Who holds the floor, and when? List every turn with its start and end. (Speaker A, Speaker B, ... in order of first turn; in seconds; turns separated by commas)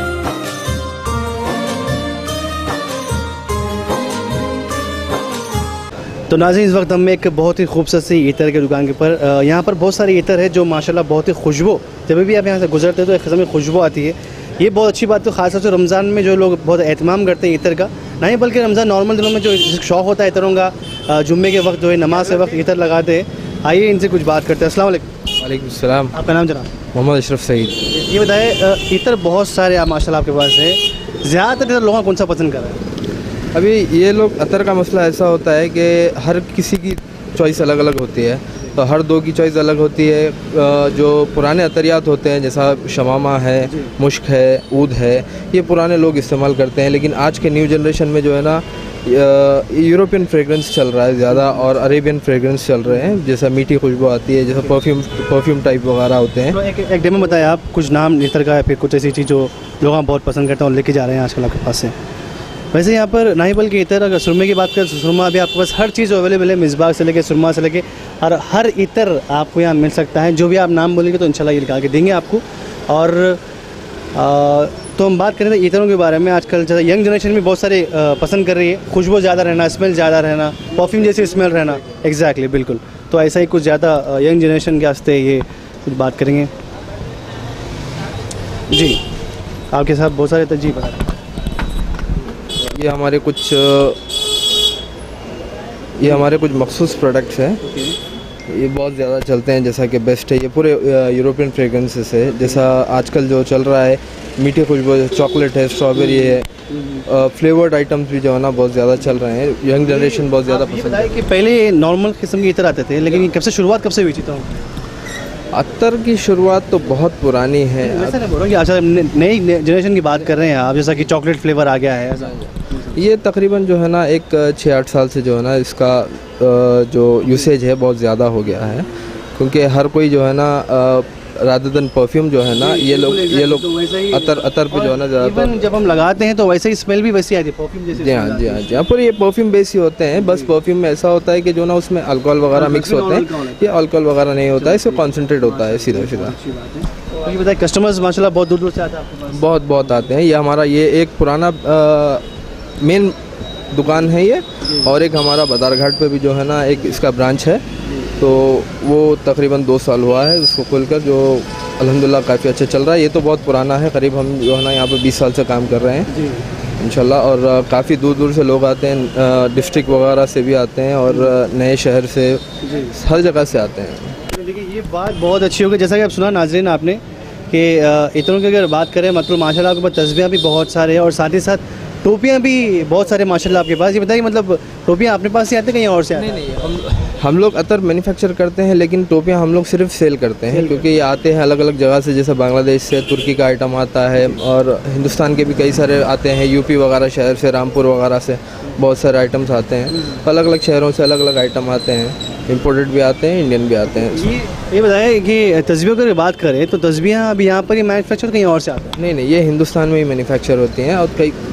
Speaker A: 6.3-25.1, Speaker B: 25.4-26.1, Speaker A: 26.1-26.7, Speaker B: 26.9-27.9, Speaker A: 27.9-32.8, Speaker B: 33.5-56.6, Speaker A: 43.7-43.9, Speaker A: 51.4-51.6, Speaker A: 56.5-61.9, Speaker A: 62.7-73.4, Speaker A: 74.1-86.5, Speaker A: 88.7-89.0, Speaker A: 89.7-91.0, Speaker B: 92.6-94.0, Speaker B: 96.0-97.6, Speaker A: 97.6-98.0, Speaker B: 98.5-106.5, Speaker A: 106.0-107.0, Speaker B: 107.0-111.2, Speaker A: 109.8-114.6, Speaker B: 115.5-118.2, Speaker A: 117.8-122.7, Speaker B: 122.4-135.7, Speaker A: 132.5-138.9, Speaker B: 137.9-146.3, Speaker A: 140.1-140.5, Speaker A: 142.5-143.8, Speaker A: 144.5-150.1, Speaker B: 149.3-152.2, Speaker B: 152.8-153.2, Speaker B: 153.7-157.6, Speaker B: 158.2-166.1, Speaker A: 166.1-166.4, Speaker B: 166.8-174.2, Speaker A: 172.6-172.9, Speaker A: 174.3-186.4, Speaker B: 186.1-204.4, Speaker A: 190.5-190.8, Speaker A: 203.9-209.0, Speaker B: 209.0-211.4